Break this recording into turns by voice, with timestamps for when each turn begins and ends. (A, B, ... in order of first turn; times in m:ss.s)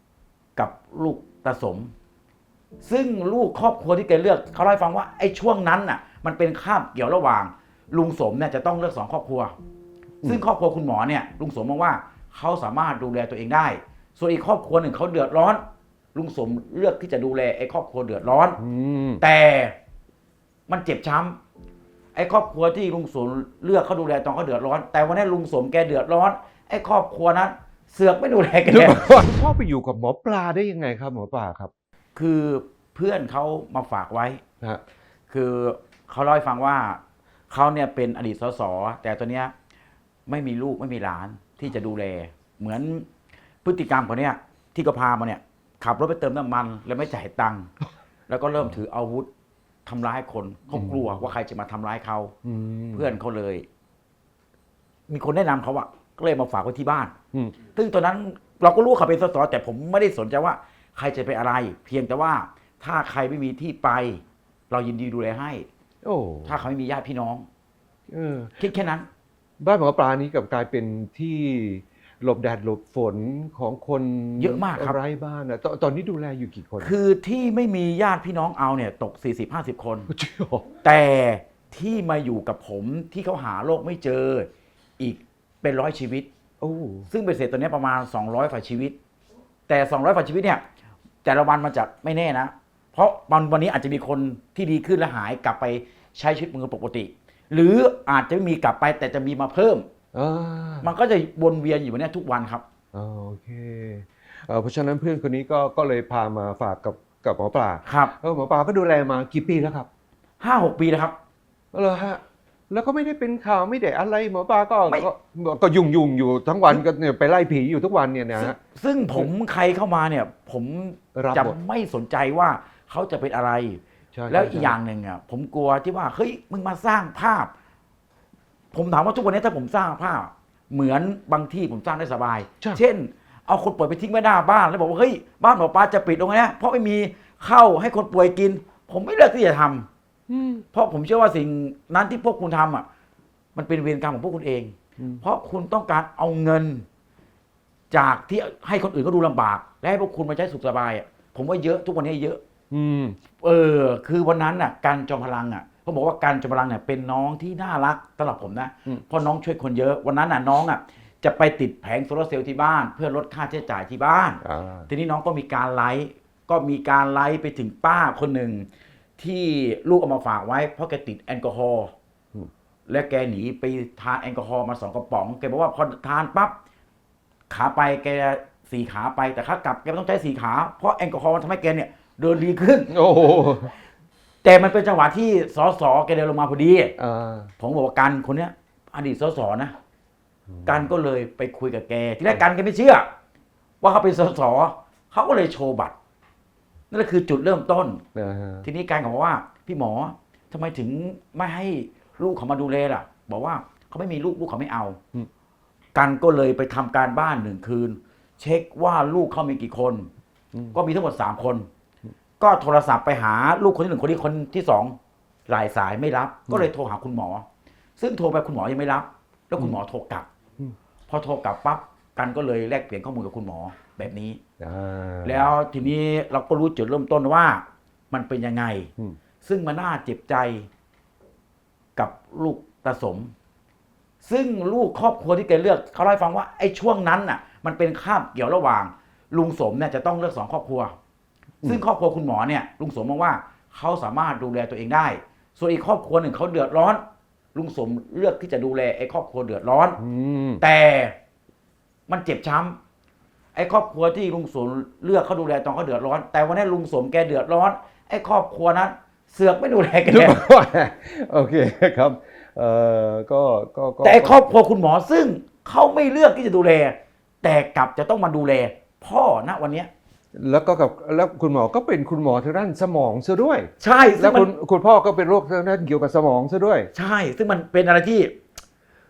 0:00.6-0:01.9 A
0:02.8-0:09.5 A
0:10.2-0:15.6 A
0:16.1-0:18.6 A
0:18.6-0:19.2 B
0:19.2-0:19.7 A
0:20.7-0:21.4 A
0:22.2-0:29.2 A
0:28.7-0:31.7 B
0:32.2-0:34.4 A
0:35.3-0:39.5 A
0:40.3-0:43.1 A
0:43.6-0:47.7 A
0:48.3-0:49.3 A
0:49.9-0:52.3 A
0:50.7-0:51.1 B
0:52.4-0:53.1 B
0:52.9-0:53.7 A
0:55.1-0:57.1 A
0:57.7-1:05.7 A
1:06.0-1:06.6 B
1:06.5-1:07.5 A
1:08.1-1:08.6 B
1:08.6-1:09.1 A
1:09.6-1:16.9 B
1:14.4-1:15.0 A
1:16.8-1:20.1 A
1:20.1-1:20.7 B
1:20.8-1:26.3 A
1:26.6-1:27.1 B
1:27.1-1:29.0 A
1:29.7-1:30.6 A
1:31.2-1:39.9 A
1:40.1-1:40.9 B
1:40.8-1:42.6 A
1:42.9-1:49.9 B
1:47.9-1:48.1 A
1:50.4-1:51.2 A
1:51.7-1:58.6 B
1:58.4-2:07.5 A
2:01.2-2:01.6 B
2:04.2-2:04.8 B
2:08.7-2:19.9 A
2:20.3-2:20.6 B
2:20.7-2:22.8 A
2:23.6-2:26.8 A
2:25.0-2:25.2 B
2:27.9-2:32.4 A
2:32.7-2:33.2 B
2:33.4-2:48.7 A
2:44.4-2:44.9 B
2:49.2-2:51.9 A
2:52.9-2:56.5 A
2:57.5-3:03.0 A
3:02.9-3:03.7 B
3:04.4-3:06.9 A
3:07.0-3:07.5 B
3:07.6-3:09.7 A
3:10.5-3:10.9 B
3:10.7-3:13.1 A
3:13.8-3:16.0 A
3:16.9-3:18.0 A
3:18.2-3:18.7 B
3:18.6-3:25.0 A
3:26.0-3:30.1 A
3:30.7-3:31.7 A
3:32.4-3:35.0 A
3:35.5-3:37.4 A
3:38.0-3:40.3 A
3:41.1-3:44.4 A
3:44.6-3:45.5 B
3:45.2-3:48.9 A
3:49.4-3:50.7 A
3:52.0-3:53.3 A
3:54.2-4:00.9 A
4:01.6-4:07.0 A
4:07.6-4:10.0 A
4:10.0-4:10.6 B
4:10.6-4:11.1 A
4:12.1-4:12.8 A
4:13.6-4:20.4 A
4:20.1-4:24.5 B
4:24.0-4:29.9 A
4:30.4-4:36.9 B
4:33.8-4:34.5 A
4:36.9-4:38.3 A